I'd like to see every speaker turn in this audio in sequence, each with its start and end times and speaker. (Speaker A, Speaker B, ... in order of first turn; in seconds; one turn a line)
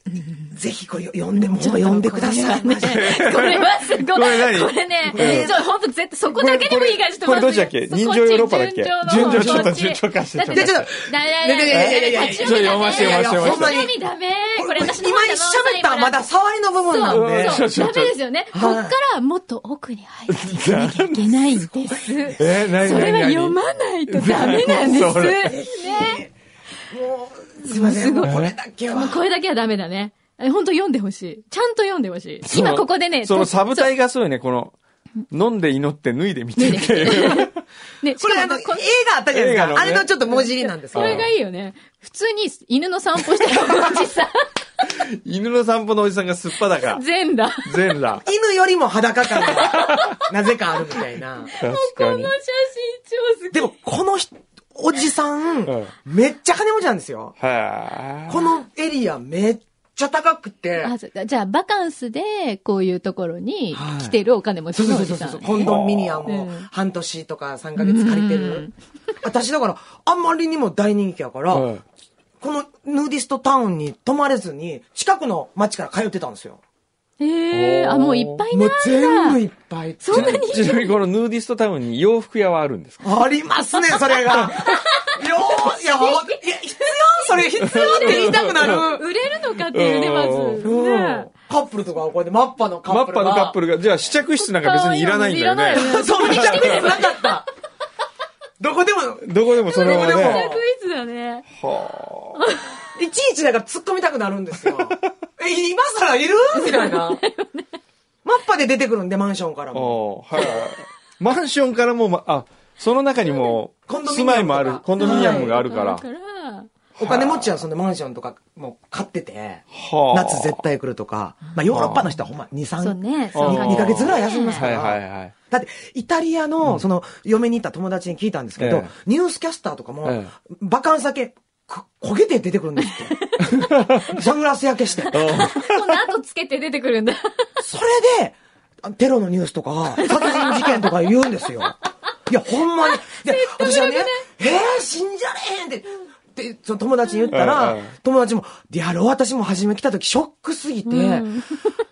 Speaker A: 0.1-0.5
Speaker B: 0.5-3.2
Speaker A: 1.4-16.2
Speaker C: 2.4-5.5
Speaker B: 5.2-5.6
Speaker C: 6.3-10.9
Speaker B: 9.1-9.8
Speaker B: 10.5-13.9
Speaker C: 11.7-13.8
Speaker B: 14.6-17.6
Speaker A: 16.9-26.2
Speaker C: 17.1-18.1
Speaker B: 18.5-18.9
Speaker C: 20.3-21.4
Speaker B: 21.6-22.7
Speaker C: 22.4-25.6
Speaker B: 25.4-26.3
Speaker B: 26.9-29.2
Speaker A: 27.6-33.9
Speaker C: 28.2-28.5
Speaker C: 32.5-34.8
Speaker C: 35.3-37.6
Speaker A: 36.6-38.8
Speaker B: 38.2-41.2
Speaker C: 39.3-40.1
Speaker A: 40.3-44.5
Speaker C: 40.9-41.3
Speaker C: 44.9-47.0
Speaker A: 46.8-47.7
Speaker C: 47.6-48.2
Speaker B: 48.2-51.5
Speaker C: 49.5-50.2
Speaker A: 49.8-50.1
Speaker A: 51.5-53.7
Speaker C: 51.6-52.3
Speaker B: 53.5-57.4
Speaker C: 55.6-56.0
Speaker C: 57.4-58.4
Speaker B: 58.3-60.9
Speaker A: 60.8-66.7
Speaker B: 63.8-64.1
Speaker B: 64.7-68.7
Speaker C: 65.6-66.3
Speaker A: 67.8-68.7
Speaker B: 69.2-71.7
Speaker C: 71.5-71.8
Speaker B: 72.4-76.6
Speaker A: 77.2-79.4
Speaker C: 77.5-78.4
Speaker B: 78.5-80.5
Speaker A: 80.0-81.0
Speaker C: 80.1-83.0
Speaker B: 83.0-89.0
Speaker C: 84.3-84.7
Speaker A: 84.4-91.3
Speaker C: 87.6-88.9
Speaker C: 89.7-90.7
Speaker B: 90.6-93.6
Speaker C: 92.9-96.9
Speaker A: 94.4-97.3
Speaker B: 95.8-97.5
Speaker B: 98.6-100.6
Speaker C: 99.2-100.5
Speaker A: 99.7-101.5
Speaker C: 101.6-102.4
Speaker A: 102.4-102.7
Speaker B: 103.0-107.2
Speaker A: 106.5-107.7
Speaker B: 108.2-110.6
Speaker C: 109.7-116.0
Speaker B: 113.9-115.6
Speaker A: 115.0-116.7
Speaker C: 117.0-117.6
Speaker B: 117.0-133.2
Speaker C: 119.7-120.6
Speaker C: 121.7-122.1
Speaker A: 122.8-124.7
Speaker C: 123.3-125.3
Speaker C: 128.6-128.9
Speaker C: 130.0-130.3
Speaker A: 132.8-133.6
Speaker C: 133.4-134.1
Speaker B: 134.0-135.4
Speaker C: 135.1-136.0
Speaker A: 135.1-137.5
Speaker B: 137.6-141.8
Speaker A: 140.0-140.8
Speaker B: 142.3-151.3
Speaker A: 143.0-144.3
Speaker C: 147.3-147.9
Speaker A: 150.9-151.8